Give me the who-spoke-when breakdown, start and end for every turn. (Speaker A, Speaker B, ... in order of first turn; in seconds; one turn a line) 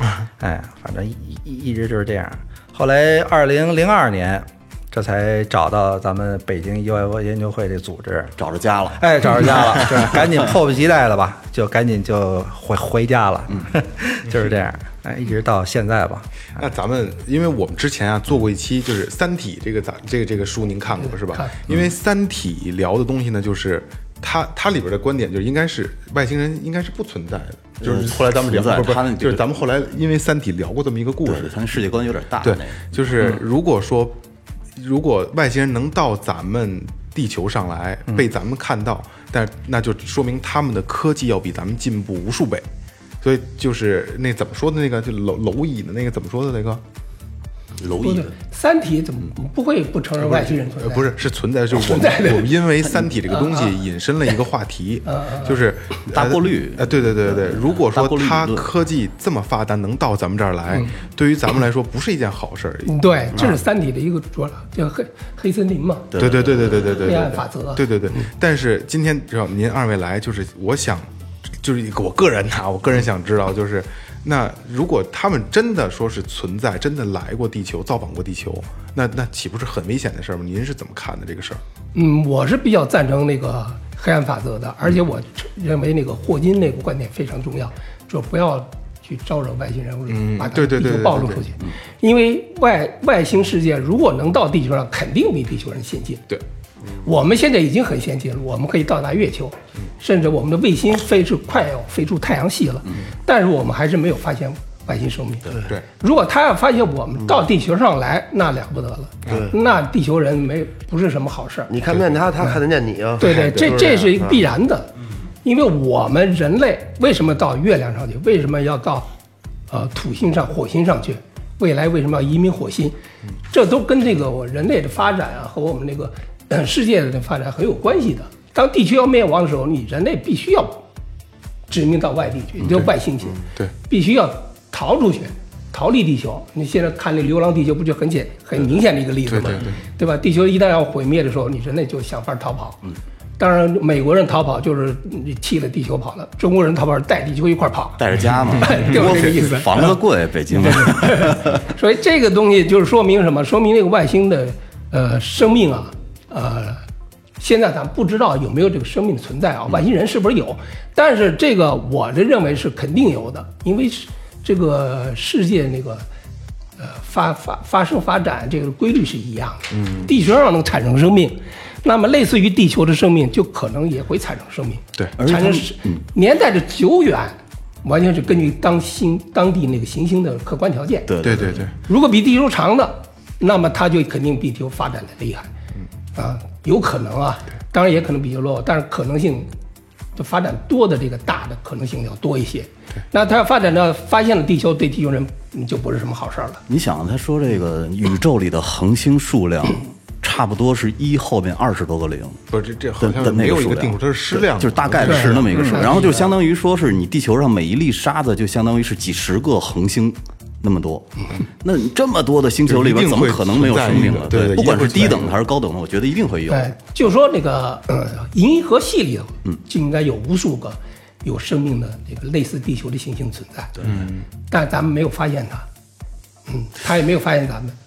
Speaker A: 0.4-8.3
Speaker B: 8.4-10.4
Speaker A: 9.0-16.3
Speaker C: 16.6-31.5
Speaker D: 21.0-21.5
Speaker B: 27.8-29.5
Speaker B: 31.2-33.4
Speaker C: 32.4-34.2
Speaker C: 34.8-42.6
Speaker C: 43.2-46.8
Speaker B: 47.8-48.3
Speaker D: 48.0-51.1
Speaker C: 50.2-63.6
Speaker D: 51.7-52.6
Speaker D: 53.3-53.8
Speaker D: 55.0-55.6
Speaker B: 56.1-58.7
Speaker D: 62.9-66.1
Speaker B: 66.1-67.2
Speaker C: 66.2-71.1
Speaker D: 67.0-68.3
Speaker C: 71.6-81.6
Speaker D: 81.9-96.2
Speaker C: 90.1-91.5
Speaker D: 97.0-111.7
Speaker E: 109.2-109.5
Speaker E: 111.7-114.4
Speaker D: 113.2-114.9
Speaker C: 113.2-113.8
Speaker D: 115.4-119.1
Speaker D: 119.7-122.9
Speaker D: 123.5-130.8
Speaker D: 131.7-142.8
Speaker C: 132.6-132.9
Speaker C: 133.4-133.7
Speaker C: 139.3-139.8
Speaker D: 143.4-148.0
Speaker B: 148.0-151.6
Speaker D: 148.5-150.0
Speaker D: 150.5-156.8
Speaker D: 157.4-166.1
Speaker D: 166.8-181.1
Speaker C: 169.7-170.1
Speaker B: 175.2-176.0
Speaker B: 181.1-181.7
Speaker C: 181.2-181.7
Speaker D: 181.8-185.5
Speaker D: 186.2-189.5
Speaker D: 190.2-196.6
Speaker B: 196.7-202.4
Speaker C: 202.5-206.3
Speaker B: 203.0-216.7
Speaker D: 205.0-206.3
Speaker C: 212.7-215.4
Speaker D: 216.5-223.7
Speaker B: 223.8-224.1
Speaker C: 223.8-224.2
Speaker D: 224.5-225.7
Speaker D: 226.5-227.8